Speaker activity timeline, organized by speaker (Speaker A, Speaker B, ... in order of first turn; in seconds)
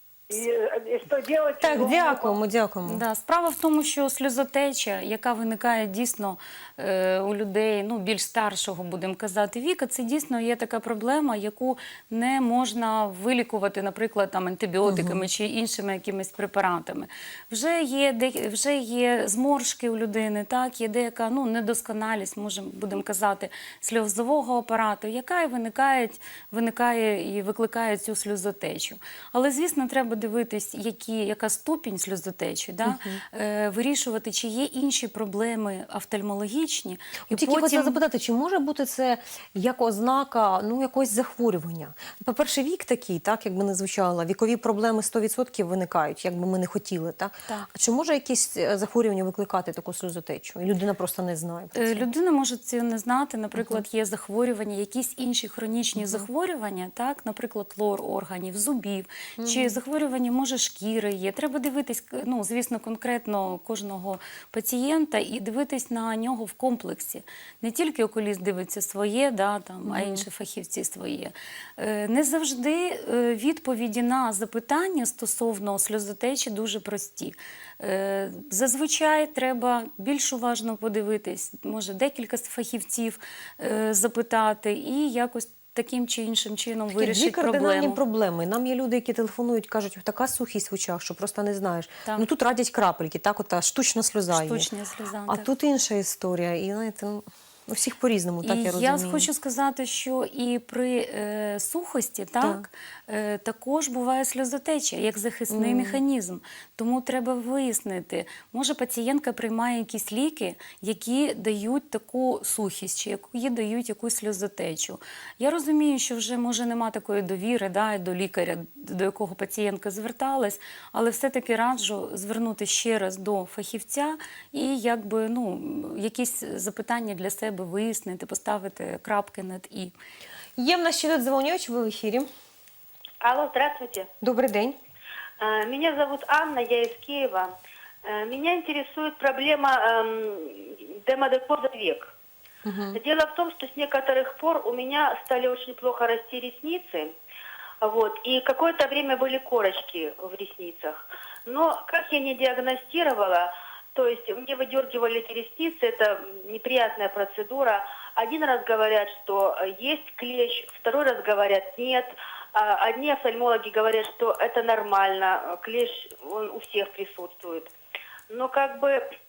Speaker A: 0.3-2.4
Speaker B: 1.6-3.0, 14.8-15.2, 32.8-33.2, 37.3-52.1, 53.6-53.8, 56.0-56.2, 59.4-59.8, 69.8-70.2, 86.9-94.7, 95.3-99.3, 105.5-106.0, 130.6-132.3, 134.2-134.8, 142.6-143.0
Speaker C: 2.9-38.0, 51.8-88.0, 94.3-95.4, 98.4-129.9
Speaker D: 133.2-134.1, 135.4-137.5, 138.0-142.1, 142.9-147.1, 147.8-167.7, 168.3-169.0